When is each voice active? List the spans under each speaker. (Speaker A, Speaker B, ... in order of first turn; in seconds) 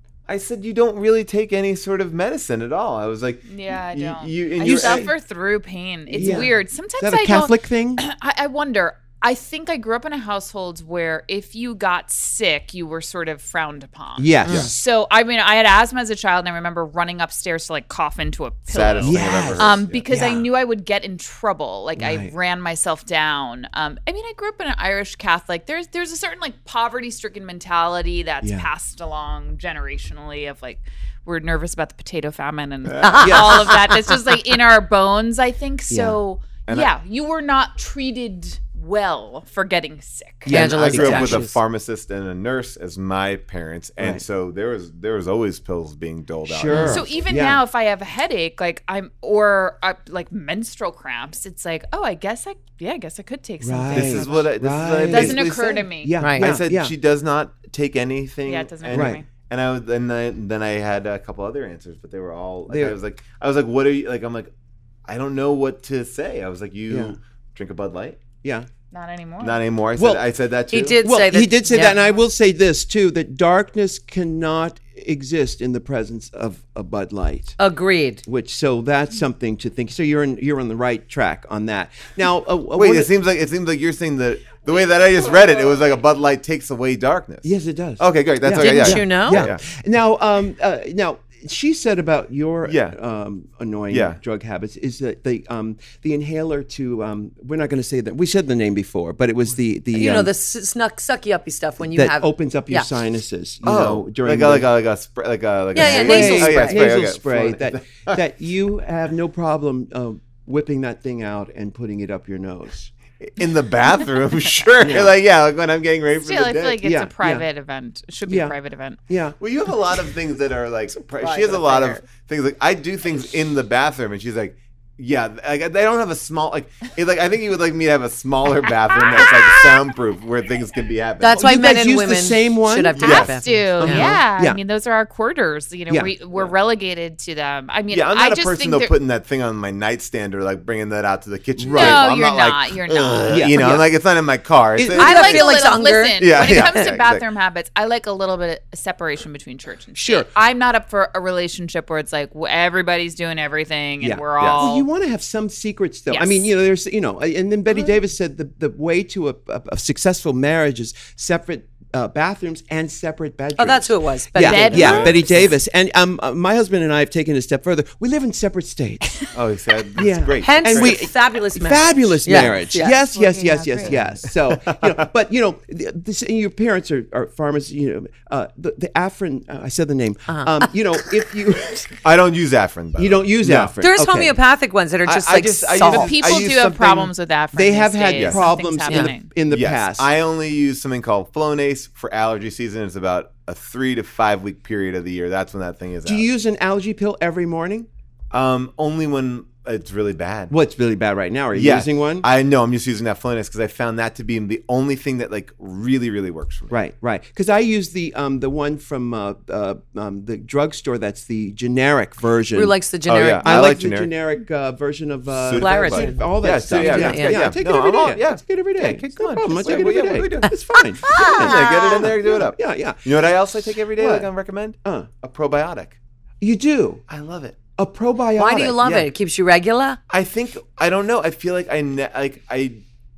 Speaker A: 0.3-5.1, 6.2-6.5, 18.7-20.0, 33.0-33.2, 40.5-47.1, 53.9-64.5, 65.1-68.2, 69.4-71.0, 82.7-89.6, 92.7-93.0, 93.9-94.2, 103.6-108.2, 113.2-116.8, 119.4-131.8, 133.0-133.3, 137.9-145.6, 146.2-147.2, 154.4-154.6, 164.8-165.3, 169.3-171.0, 173.9-175.0, 182.0-183.8, 185.1-187.1, 188.2-188.5, 189.5-196.3, 198.3-200.5, 201.5-206.8, 213.1-214.1, 215.3-220.5, 221.1-226.0, 227.1-227.6, 230.1-232.8
Speaker B: 3.5-40.5, 46.8-54.5, 55.0-56.2, 58.5-59.2, 68.9-69.6, 116.2-119.0, 133.0-138.9, 141.7-143.5, 145.0-154.9, 156.1-156.5, 164.4-165.5, 172.8-174.0, 185.8-189.3
Speaker C: 4.6-5.1, 6.1-8.0, 14.2-14.8, 19.0-20.5, 22.0-22.3, 28.4-28.7, 33.2-33.7, 35.9-36.2, 40.5-41.5, 44.0-44.2, 46.5-47.6, 53.6-55.5, 56.0-56.9, 58.9-59.2, 62.7-63.0, 66.9-67.2, 68.4-68.7, 70.0-70.2, 70.9-77.6, 78.3-83.1, 87.4-100.3, 101.8-104.7, 105.8-112.9, 114.8-115.2, 116.8-117.5, 118.3-118.5, 119.1-119.4, 131.3-134.6, 141.6-142.1, 143.3-143.9, 144.8-145.2, 150.0-150.3, 154.0-169.2, 170.0-182.0, 183.0-184.4, 187.5-190.1, 196.1-197.9, 200.5-202.3, 206.7-212.8, 213.4-223.0, 224.0-224.3, 224.8-225.1, 226.4-227.0, 227.8-229.1
Speaker D: 33.0-34.0, 40.5-41.6, 46.7-47.0, 56.2-56.5, 70.7-72.0, 77.6-78.2, 88.5-89.5, 99.9-102.9, 105.7-106.9, 121.2-122.0, 131.2-134.1, 144.9-146.9, 163.6-165.2, 170.4-173.0, 180.3-180.7, 183.8-186.4, 188.9-189.1, 212.5-213.8, 215.5-217.5, 220.8-222.1, 228.4-230.0